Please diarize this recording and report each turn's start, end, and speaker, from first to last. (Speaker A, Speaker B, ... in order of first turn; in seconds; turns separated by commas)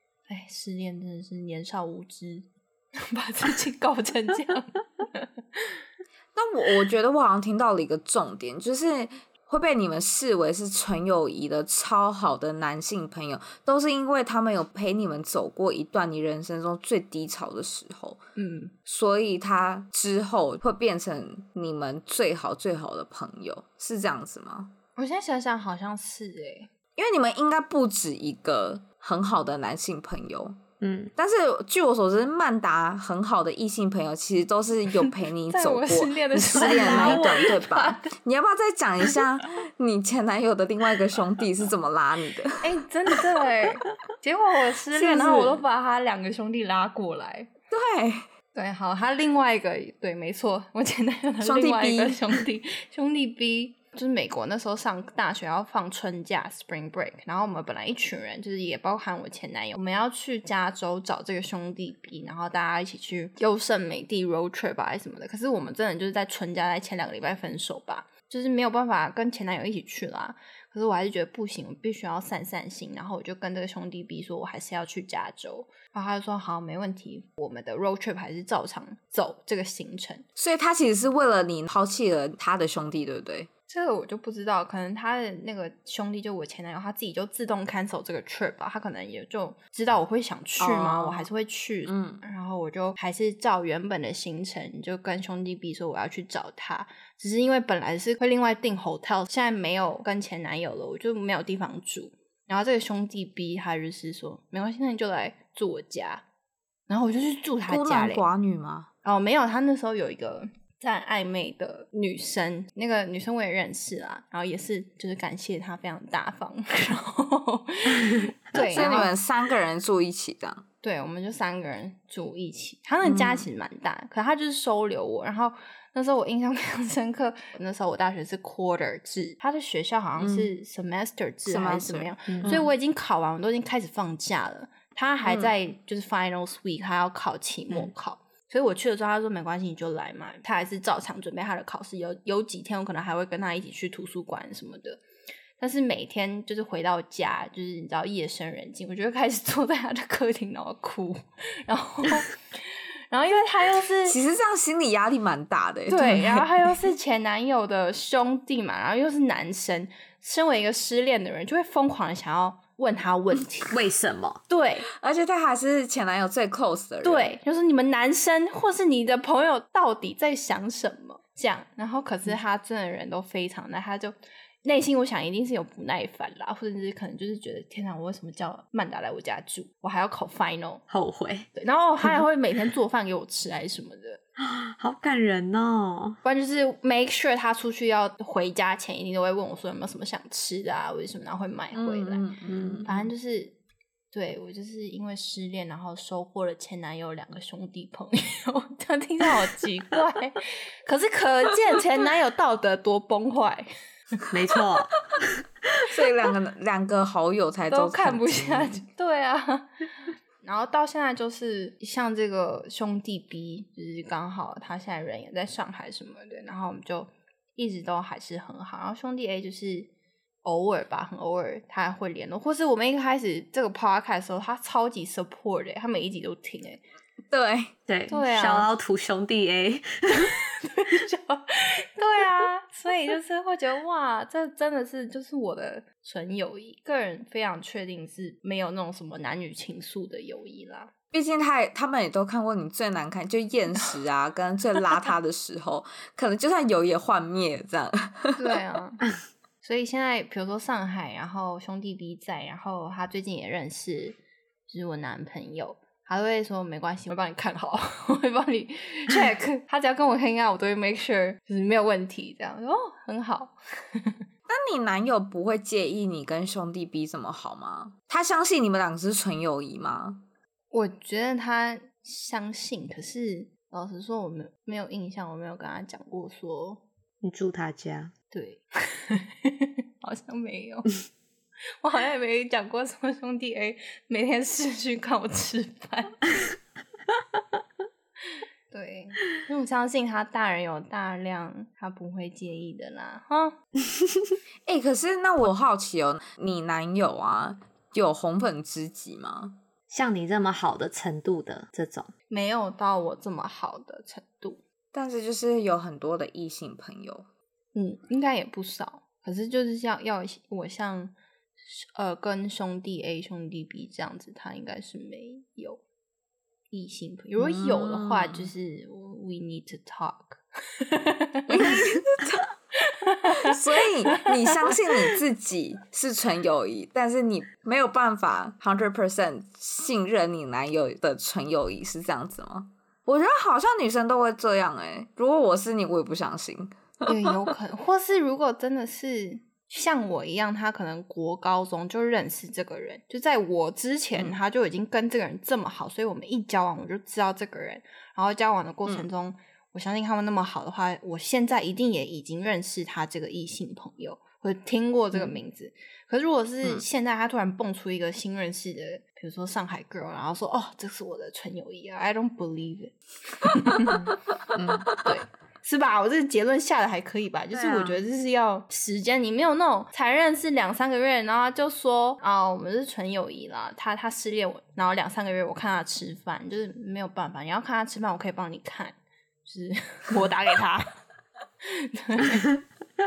Speaker A: 0.3-5.8, Speaker B: 6.3-18.2, Speaker A: 18.4-18.7, Speaker B: 18.9-24.7, Speaker A: 24.9-26.7, Speaker B: 26.9-30.6, Speaker C: 30.8-31.1, Speaker B: 31.1-42.6, Speaker A: 35.5-38.1, Speaker C: 36.5-37.5, Speaker A: 42.6-47.5, Speaker B: 44.9-45.5, Speaker B: 47.7-48.2, Speaker A: 48.5-80.2, Speaker B: 51.4-52.2, Speaker B: 80.3-83.5, Speaker A: 83.7-106.2, Speaker B: 90.6-91.3, Speaker B: 91.8-92.2, Speaker A: 106.9-108.2, Speaker B: 107.7-108.9, Speaker A: 109.0-119.1, Speaker B: 118.5-120.6, Speaker A: 120.8-145.0, Speaker B: 123.0-123.4, Speaker B: 130.2-130.5, Speaker B: 131.5-132.6, Speaker C: 132.3-132.6, Speaker B: 135.2-135.5, Speaker A: 145.6-154.2, Speaker B: 154.1-156.4, Speaker A: 155.9-163.7, Speaker C: 163.7-164.4, Speaker A: 164.5-164.9, Speaker B: 165.0-167.3, Speaker A: 167.0-180.8, Speaker C: 180.9-181.5, Speaker A: 181.5-184.2, Speaker C: 184.4-186.2, Speaker A: 186.2-192.3, Speaker B: 191.7-192.9, Speaker C: 192.5-193.1, Speaker A: 192.9-193.6, Speaker A: 194.1-203.7, Speaker C: 204.3-205.4, Speaker B: 205.8-208.8, Speaker A: 207.7-209.7, Speaker A: 210.4-219.9, Speaker A: 220.4-226.8, Speaker B: 227.3-227.7, Speaker C: 227.9-230.3, Speaker A: 228.1-228.7, Speaker A: 230.6-240.9, Speaker B: 241.1-248.4, Speaker A: 248.3-249.0, Speaker A: 249.6-264.2, Speaker B: 264.5-270.2, Speaker A: 270.7-276.8, Speaker C: 277.2-278.1, Speaker A: 278.3-281.0, Speaker A: 281.8-286.2, Speaker A: 288.7-293.6, Speaker B: 294.7-299.6, Speaker C: 299.9-302.1, Speaker A: 302.3-304.6, Speaker B: 304.9-307.2, Speaker A: 307.7-311.1, Speaker A: 311.6-315.8, Speaker A: 316.7-321.7, Speaker B: 317.4-318.5, Speaker B: 321.5-322.5, Speaker A: 322.9-323.6, Speaker B: 323.4-337.3, Speaker A: 324.1-324.7, Speaker A: 337.1-364.1, Speaker C: 364.6-364.9, Speaker A: 364.9-380.9, Speaker C: 367.5-368.0, Speaker A: 381.6-382.6